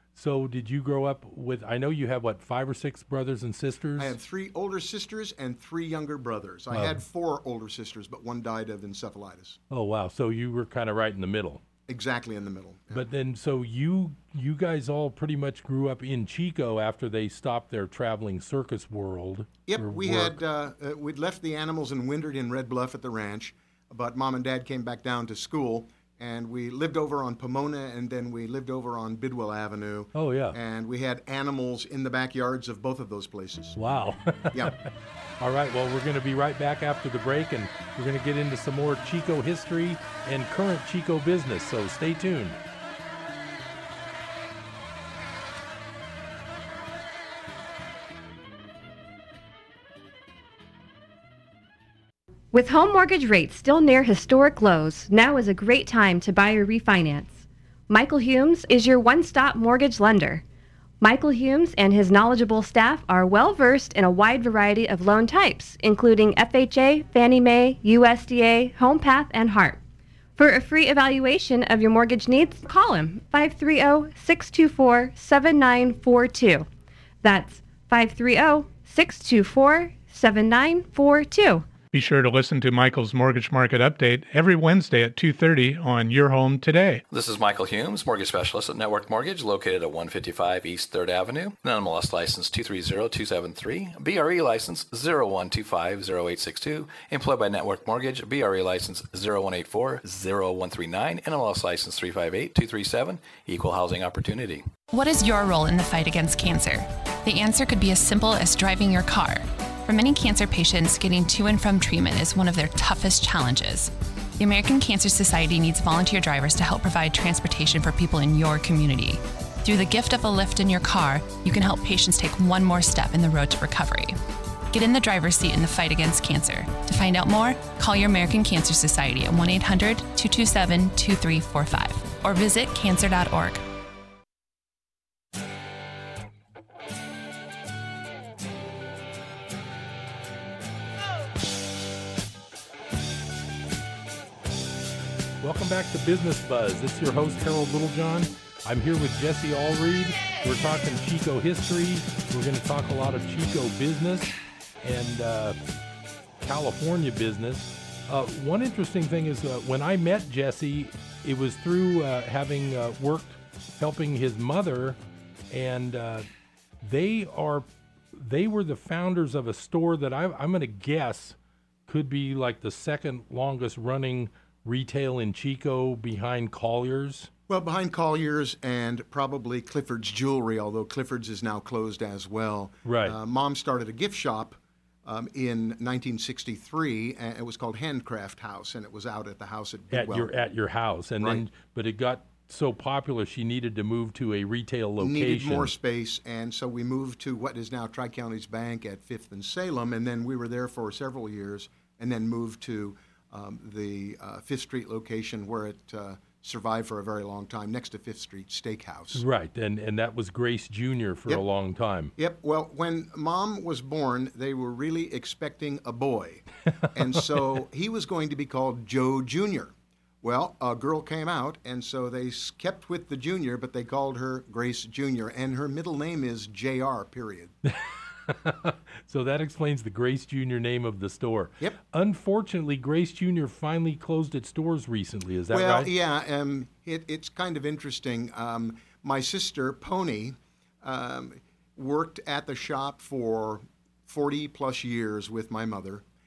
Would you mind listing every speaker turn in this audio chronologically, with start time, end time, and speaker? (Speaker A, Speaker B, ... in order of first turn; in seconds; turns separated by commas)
Speaker A: 0.1-4.1, Speaker B: 4.0-9.6, Speaker A: 6.7-7.0, Speaker A: 9.7-11.6, Speaker B: 11.9-13.1, Speaker A: 12.9-20.4, Speaker B: 19.7-33.8, Speaker A: 30.1-30.6, Speaker A: 33.8-34.8, Speaker A: 35.4-42.6, Speaker C: 52.5-60.4, Speaker C: 61.0-69.8, Speaker C: 70.4-76.7, Speaker C: 77.2-81.7, Speaker D: 81.9-87.0, Speaker E: 87.1-104.7, Speaker F: 104.9-124.2, Speaker F: 124.7-133.6, Speaker A: 145.4-155.6, Speaker A: 156.4-165.0, Speaker A: 165.5-166.2, Speaker A: 166.8-171.3, Speaker A: 171.9-177.3, Speaker B: 177.5-190.3, Speaker A: 182.8-183.2, Speaker A: 189.9-195.7, Speaker B: 195.0-209.2, Speaker A: 209.1-212.1, Speaker B: 212.2-227.5, Speaker A: 227.6-235.9, Speaker B: 235.5-246.0